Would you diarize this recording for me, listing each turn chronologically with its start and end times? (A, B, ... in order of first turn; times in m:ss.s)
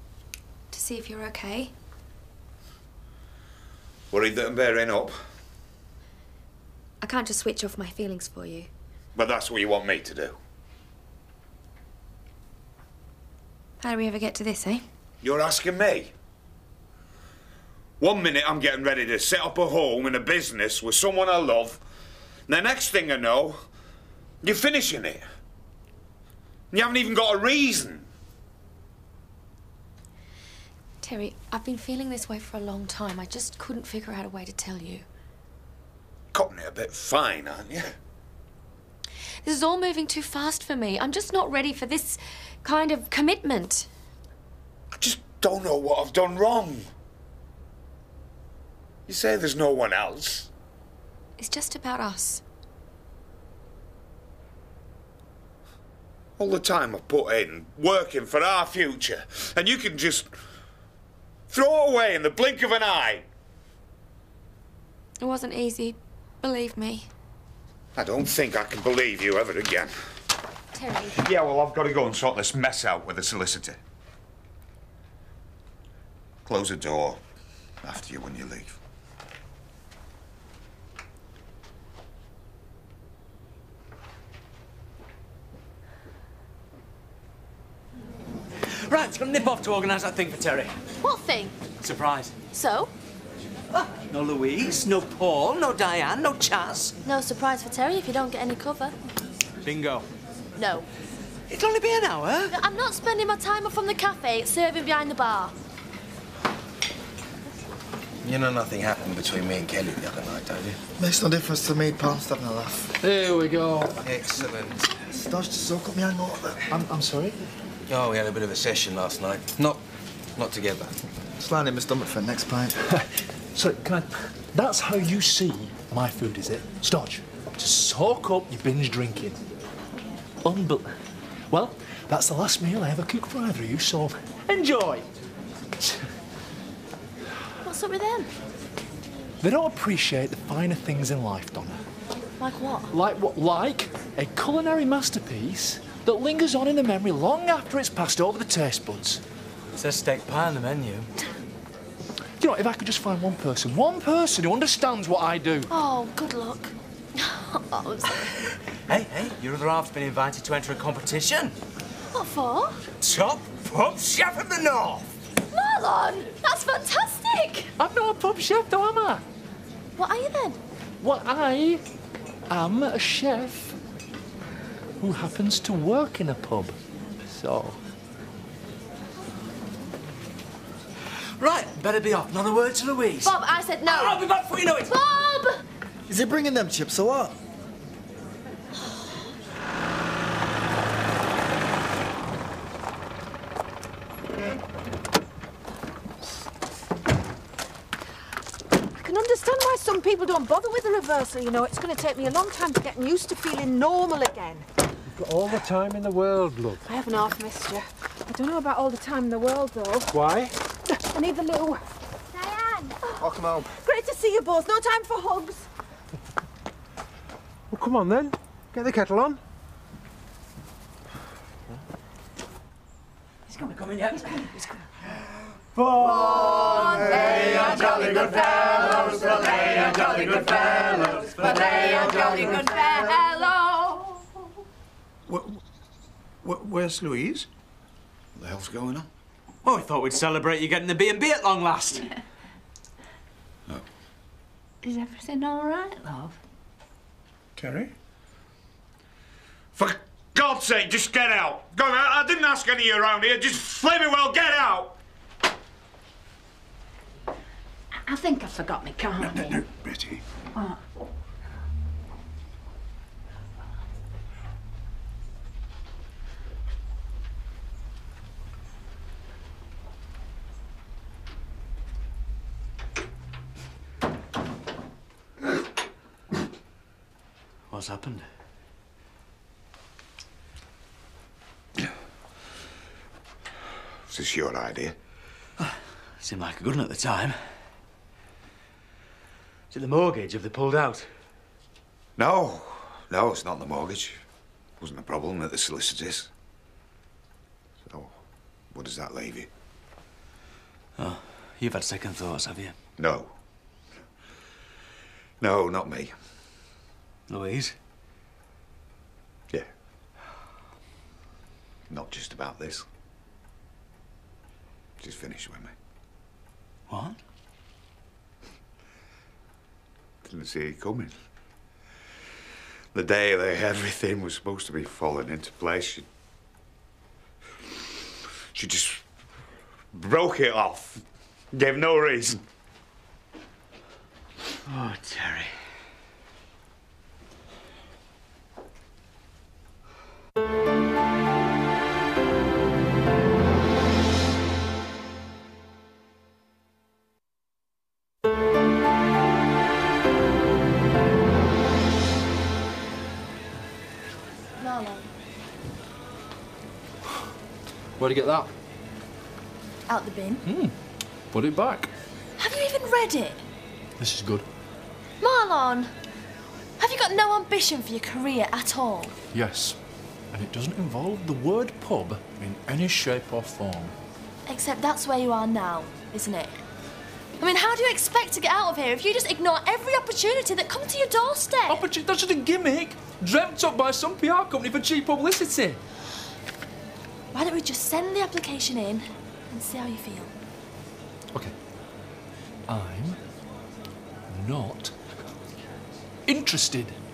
0:00.7-0:01.7 A
0:04.1-0:05.2 B
0:07.0-0:08.7 A
0:09.2-0:10.4 B
0:13.8-0:14.8 A
0:15.2-0:16.1 B
0:18.0-0:21.8 B
0:22.5-0:23.6 B
0:24.4-0:25.2 B
0:26.7-0:28.1 B
0:31.0-0:35.0 A
0:36.3-0:37.9 B
0:39.4-0:43.9 A
0:45.0-0:46.9 B
0:49.1-0:50.5 B
0:51.4-0:52.4 A
0:56.4-1:00.3 B
1:01.5-1:03.2 B
1:05.2-1:07.1 A
1:07.9-1:09.9 B
1:10.7-1:11.2 A
1:11.2-1:13.8 B
1:16.4-1:17.2 B
1:17.8-1:18.8 B
1:28.6-1:30.8 C
1:31.0-1:31.6 D
1:31.8-1:32.4 C
1:32.5-1:32.9 D
1:33.7-1:37.0 C
1:37.0-1:38.9 D
1:39.6-1:40.0 C
1:40.6-1:40.8 D
1:41.5-1:42.6 C
1:42.5-1:45.5 D
1:48.2-1:50.8 E
1:51.0-1:52.9 F
1:53.0-1:54.0 G
1:54.0-1:54.9 E
1:55.1-1:56.6 F
1:56.7-1:57.4 G
1:57.9-1:59.8 E
2:00.3-2:00.9 E
2:01.4-2:02.7 F
2:02.9-2:09.4 G
2:10.4-2:10.9 G
2:11.5-2:15.0 G
2:17.6-2:18.3 D
2:19.4-2:21.8 G
2:22.4-2:22.9 D
2:22.9-2:29.2 G
2:29.8-2:31.1 C
2:32.4-2:35.7 G
2:35.7-2:38.2 D
2:38.9-2:41.6 C
2:42.1-2:42.8 D
2:43.0-2:45.1 C
2:45.5-2:47.7 D
2:47.8-2:49.2 G
2:50.0-2:50.6 D
2:51.0-2:51.8 G
2:52.5-2:53.8 G
2:55.0-2:56.8 G
2:57.3-2:57.8 G
3:01.4-3:04.9 C
3:03.2-3:04.2 D
3:04.8-3:05.6 D
3:06.1-3:07.4 F
3:18.9-3:24.6 H
3:25.2-3:26.8 I
3:26.8-3:30.2 H
3:30.1-3:30.5 I
3:30.9-3:31.8 H
3:33.2-3:33.6 F
3:33.8-3:35.7 H
3:37.7-3:39.4 I
3:43.5-3:44.7 C
3:46.9-3:51.3 C
3:47.7-3:48.0 J
3:52.6-3:53.1 J
3:53.1-3:53.7 D
3:55.3-3:55.6 I
3:56.4-3:57.4 I
3:58.4-3:59.1 B
3:59.6-4:02.1 C
4:04.8-4:06.4 J
4:09.8-4:15.0 B
4:18.0-4:19.6 H
4:19.8-4:20.2 I
4:37.7-4:38.3 C
4:44.1-4:45.0 B
4:45.6-4:47.6 C
4:49.7-4:51.1 C
4:52.2-4:54.2 B
4:54.8-4:56.3 B
4:57.9-4:58.1 B
4:58.7-4:59.5 B
5:01.0-5:02.7 C
5:03.0-5:03.3 B
5:05.4-5:06.1 B
5:07.3-5:07.8 C
5:11.9-5:12.9 B
5:15.0-5:15.7 B
5:16.9-5:17.2 C
5:20.2-5:21.1 B
5:22.9-5:26.1 B
5:28.5-5:29.1 B
5:29.9-5:32.4 B
5:34.7-5:35.5 C
5:54.6-5:55.1 D
5:58.0-5:58.5 G
5:59.9-6:00.4 D
6:00.4-6:00.8 G
6:01.3-6:01.9 G
6:02.4-6:03.4 D
6:04.0-6:04.4 G
6:05.2-6:05.9 D
6:06.8-6:09.2 D
6:09.3-6:09.8 G
6:10.3-6:13.9 G
6:14.5-6:16.5 D
6:17.4-6:21.8 D
6:21.7-6:25.8 G
6:27.3-6:30.3 D
6:32.7-6:33.2 G
6:34.3-6:34.9 G
6:36.2-6:37.0 G